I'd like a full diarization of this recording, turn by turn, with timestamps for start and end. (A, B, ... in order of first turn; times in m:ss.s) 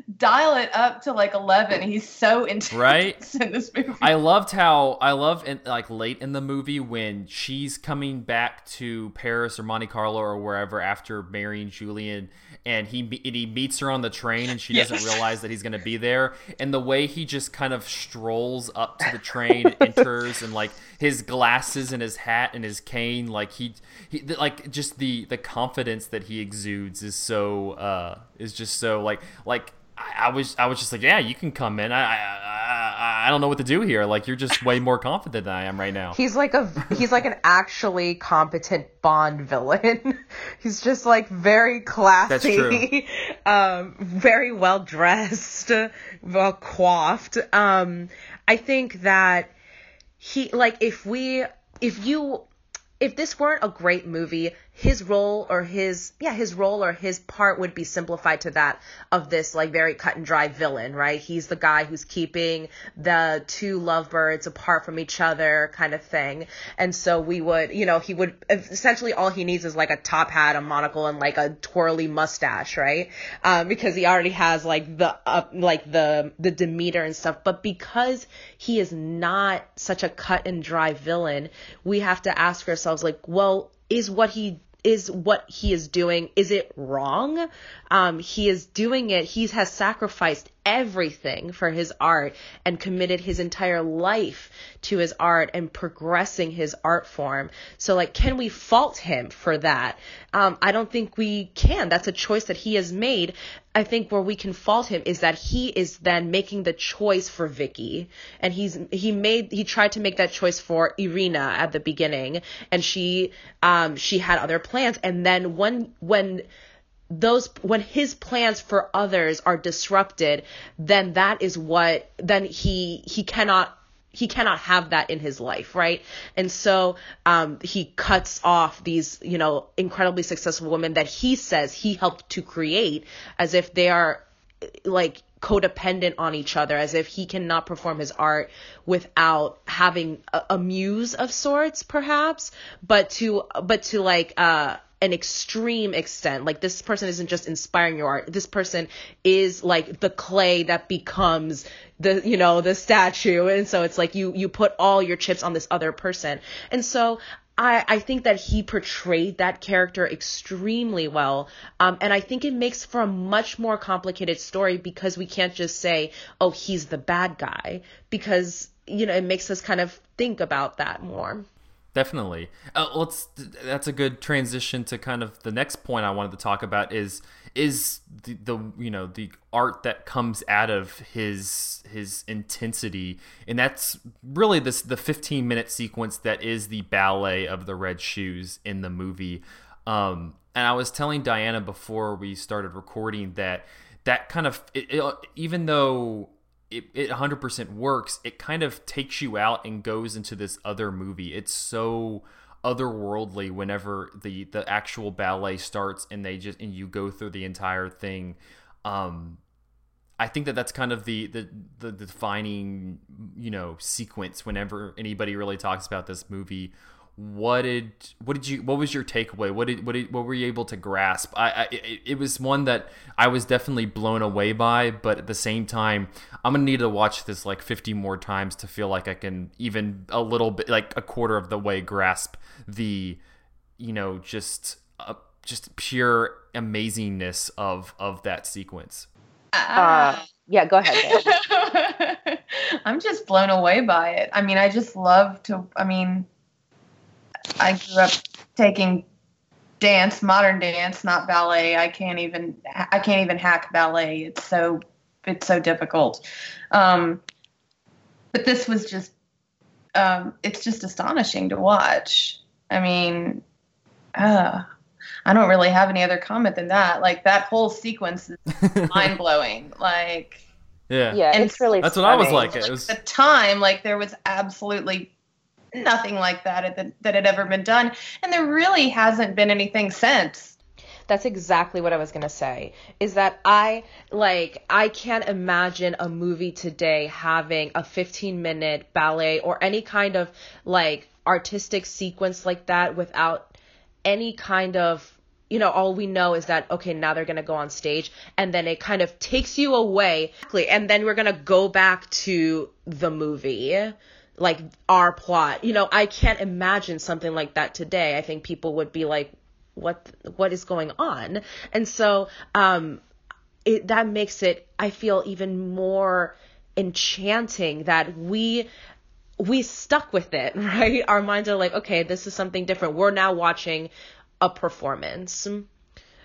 0:00.1-0:04.1 A
0:02.7-0:03.2 B
0:04.0-0:36.2 B
0:14.7-0:15.2 A
0:36.1-0:49.5 C
0:42.3-0:42.9 B
0:50.2-0:52.5 C
0:53.0-1:56.4 C
1:57.1-2:14.2 C
2:14.8-2:51.5 C
2:51.9-3:29.4 B
3:30.2-3:53.2 B
3:53.8-3:59.1 B
3:59.5-4:00.3 A
3:59.8-4:01.4 D
4:00.9-4:06.3 A
4:07.6-4:09.0 A
4:09.8-4:17.2 A
4:18.3-4:19.1 A
4:20.0-4:23.4 A
4:24.2-4:24.6 A
4:25.3-4:30.4 A
4:28.6-4:29.2 B
4:30.9-4:31.3 B
4:31.1-4:32.5 D
4:31.3-4:35.1 A
4:31.8-4:33.0 B
4:35.7-4:40.6 A
4:41.1-5:13.0 C
5:13.7-5:18.7 C
5:19.4-5:23.9 C
5:24.4-5:25.7 C